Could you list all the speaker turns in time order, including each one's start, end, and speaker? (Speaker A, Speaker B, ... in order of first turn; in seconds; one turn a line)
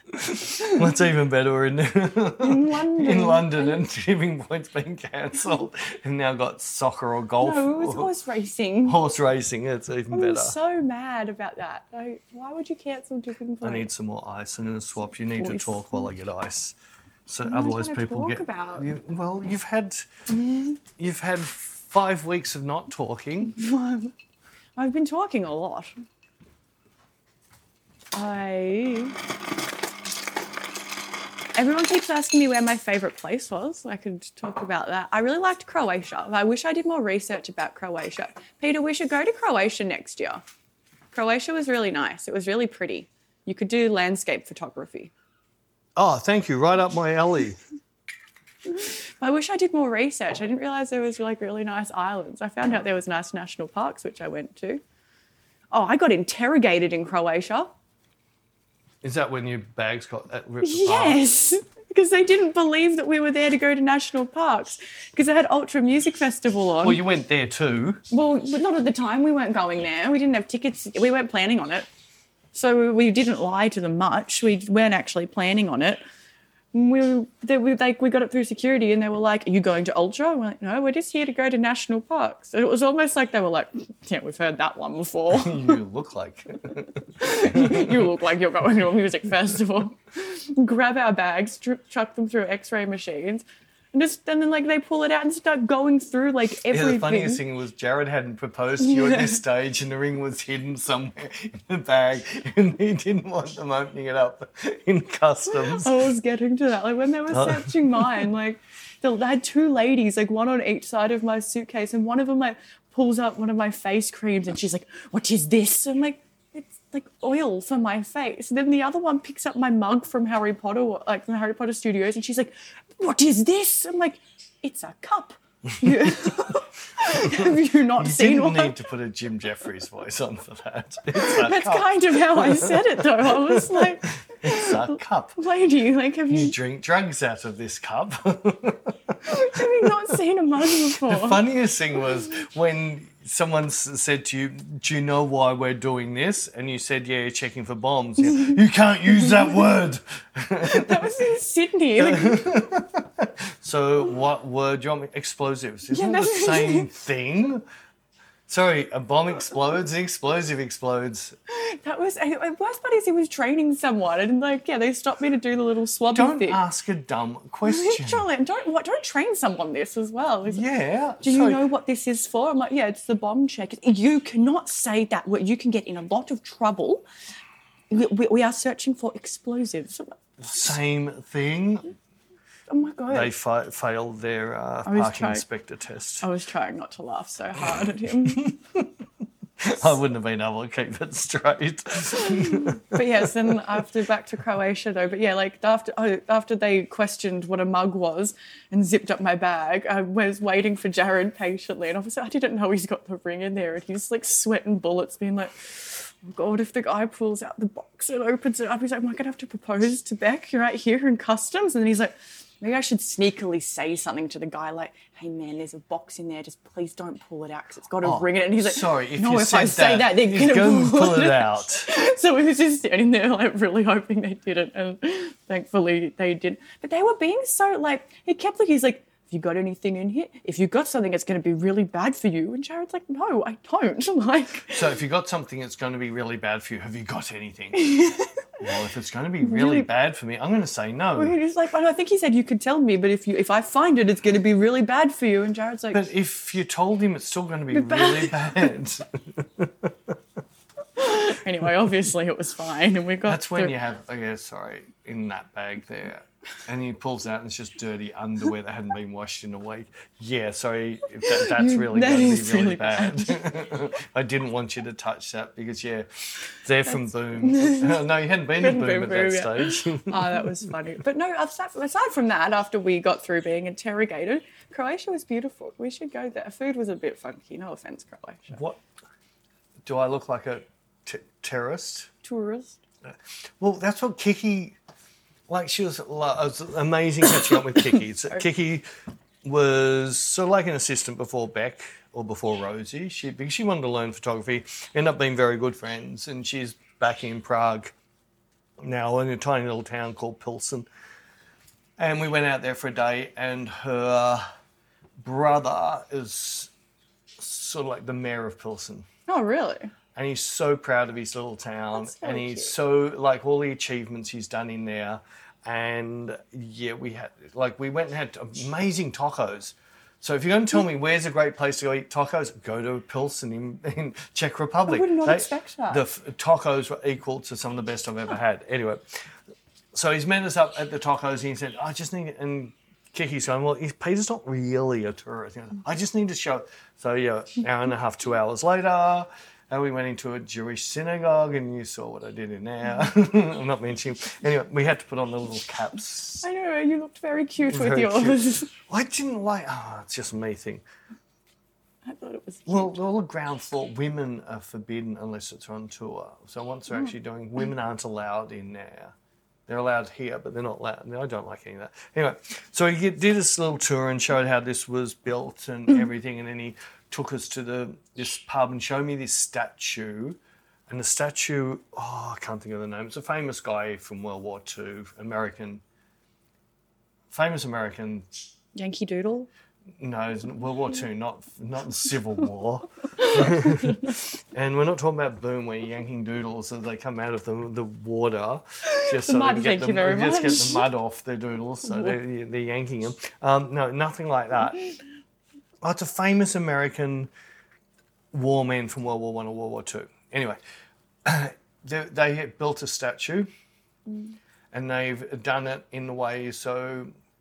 Speaker A: 0.1-8.1
Speaker B: 0.3-0.9
Speaker B: 2.4-3.8
Speaker B: 7.4-9.0
Speaker A: 8.8-10.6
Speaker B: 10.1-13.9
Speaker A: 13.6-16.7
Speaker B: 15.3-16.1
Speaker A: 17.3-20.1
Speaker B: 17.4-18.9
Speaker B: 20.3-20.8
Speaker A: 21.0-23.6
Speaker B: 23.5-24.1
Speaker B: 24.8-26.0
Speaker B: 28.1-29.2
Speaker B: 31.6-40.4
Speaker B: 41.1-45.1
Speaker A: 46.0-47.6
Speaker B: 48.7-54.8
Speaker B: 55.7-57.7
Speaker A: 59.0-61.2
Speaker B: 60.6-67.0
Speaker A: 66.8-68.0
Speaker B: 68.1-71.9
Speaker B: 72.5-76.0
Speaker B: 76.7-85.8
Speaker A: 85.3-88.1
Speaker B: 87.2-97.4
Speaker A: 96.7-106.0
Speaker B: 98.8-99.4
Speaker B: 105.5-128.8
Speaker A: 107.3-108.3
Speaker A: 125.8-126.5
Speaker A: 127.1-135.4
Speaker B: 131.1-136.5
Speaker A: 136.3-140.2
Speaker B: 139.2-141.4
Speaker A: 140.7-151.3
Speaker B: 150.6-152.5
Speaker A: 151.9-157.6
Speaker B: 155.9-156.9
Speaker A: 158.5-161.3
Speaker B: 161.5-166.6
Speaker A: 166.1-168.2
Speaker B: 167.6-170.6
Speaker A: 170.5-171.6
Speaker B: 171.2-177.0
Speaker B: 177.9-180.6
Speaker A: 180.4-181.9
Speaker B: 182.7-183.3
Speaker A: 183.1-186.3
Speaker B: 184.8-185.4
Speaker B: 186.2-188.5
Speaker A: 188.2-188.9
Speaker A: 189.6-193.6
Speaker B: 192.1-234.9
Speaker A: 218.0-221.9
Speaker A: 234.7-237.9
Speaker B: 237.7-238.4
Speaker A: 238.6-241.3
Speaker B: 239.4-239.9
Speaker B: 241.2-246.0
Speaker A: 245.9-250.2
Speaker B: 247.7-248.7
Speaker B: 250.9-253.7
Speaker A: 253.2-270.7
Speaker B: 261.2-263.5
Speaker B: 266.9-278.6
Speaker A: 278.5-278.8
Speaker A: 279.8-282.1
Speaker B: 282.2-282.8
Speaker A: 283.0-284.8
Speaker A: 285.5-288.8
Speaker A: 289.4-297.9
Speaker A: 298.8-300.9
Speaker A: 302.0-304.4
Speaker A: 305.2-306.7
Speaker A: 307.4-309.1
Speaker B: 309.3-309.9
Speaker A: 310.1-329.2
Speaker B: 312.0-312.7
Speaker B: 324.9-326.0
Speaker A: 329.9-346.5
Speaker B: 346.4-348.7
Speaker A: 347.7-350.8
Speaker B: 352.0-353.0
Speaker A: 352.7-359.1
Speaker A: 359.7-375.8
Speaker A: 377.3-378.3
Speaker B: 378.7-379.5
Speaker A: 380.0-394.9
Speaker B: 383.2-384.0
Speaker B: 388.8-390.9
Speaker B: 391.8-392.2
Speaker A: 395.8-397.3
Speaker A: 398.3-400.6
Speaker A: 401.2-403.5
Speaker A: 404.7-407.1